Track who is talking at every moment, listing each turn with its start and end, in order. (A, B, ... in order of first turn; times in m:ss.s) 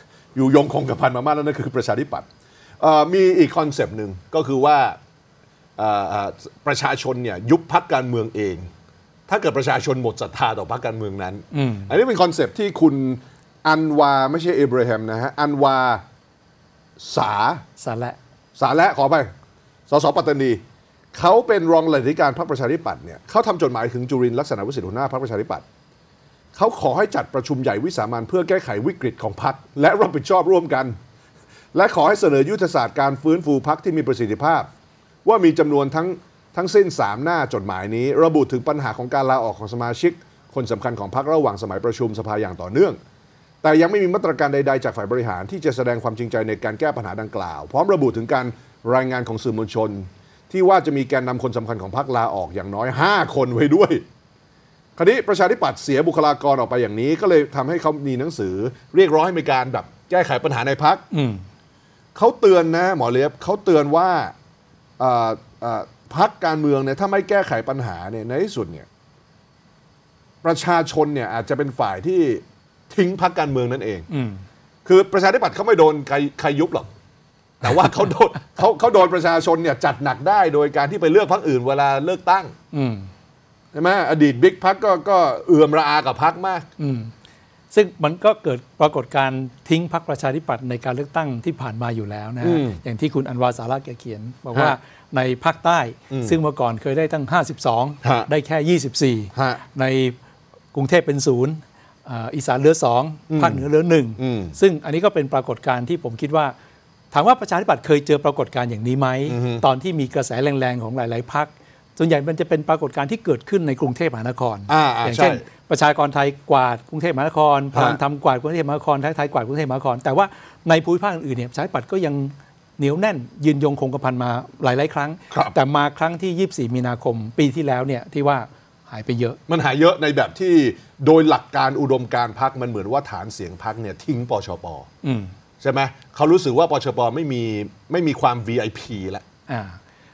0:00.3-0:02.2 A
0:02.8-0:05.0 A
0:05.8-0:08.7 A
0:09.3-0:16.0 A
0:11.5-0:11.9 B
0:17.0-0:17.6 A
0:17.8-0:18.2 B
0:18.6-0:19.3 A
0:19.9-0:20.6 A
0:21.1-0:25.6 A
0:26.5-0:31.0 A
0:31.7-0:34.7 A
0:35.2-0:43.0 A
0:43.6-0:54.0 A
0:55.0-1:01.0 A
1:01.1-1:01.4 B
1:02.1-1:04.3 A
1:05.0-1:08.9 A
1:10.4-1:14.1 A
1:14.1-1:14.4 B
1:14.8-1:16.9 A
1:17.6-1:22.5 A
1:22.7-1:23.1 B
1:23.7-1:26.7 A
1:26.8-1:27.1 B
1:27.7-1:40.1 B
1:32.4-1:32.8 A
1:36.1-1:36.4 A
1:38.0-1:38.3 A
1:39.3-1:39.6 A
1:40.7-1:46.5 B
1:43.3-1:43.6 A
1:44.2-1:44.6 A
1:47.1-2:09.4 B
1:49.3-1:49.6 A
1:54.7-1:55.4 A
1:57.7-1:58.0 A
2:09.5-2:14.9 A
2:15.0-2:15.3 B
2:15.6-2:19.2 A
2:19.5-2:19.8 B